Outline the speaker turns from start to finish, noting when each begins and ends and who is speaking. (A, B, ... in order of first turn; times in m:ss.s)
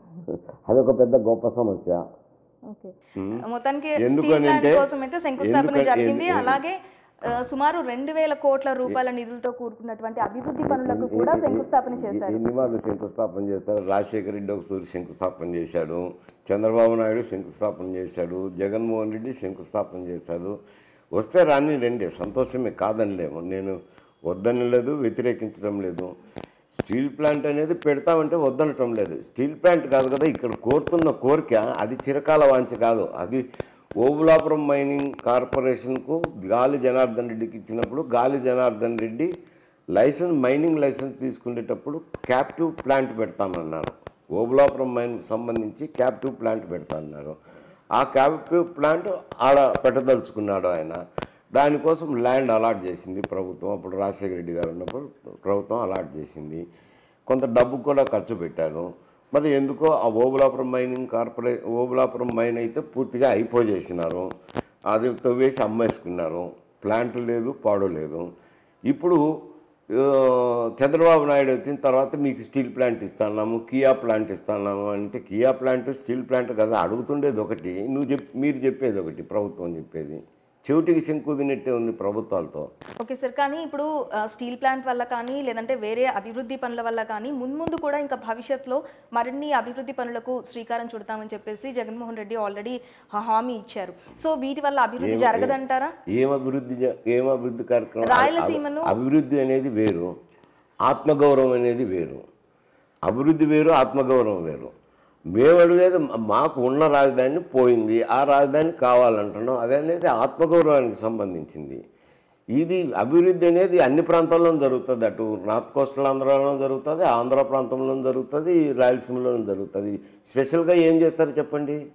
0:00.3-0:02.0 A
0:02.7-0:12.4 B
0:03.2-0:03.4 A
0:04.0-0:04.8 A
0:05.4-0:06.6 A
0:10.7-0:20.6 A
0:21.2-0:26.1 A
0:26.8-0:33.4 A
0:34.0-0:39.3 A
0:40.0-0:47.4 A
0:48.0-0:51.0 A
0:51.5-0:56.6 A
0:57.3-1:04.3 A
1:04.9-1:08.3 A
1:08.9-1:09.2 A
1:09.9-1:22.7 A
1:23.0-1:35.9 B
1:35.0-1:35.6 A
1:36.1-1:40.1 A
1:38.0-1:38.9 B
1:40.9-1:42.2 A
1:43.1-1:44.7 A
1:45.4-1:51.8 A
1:52.6-2:01.8 A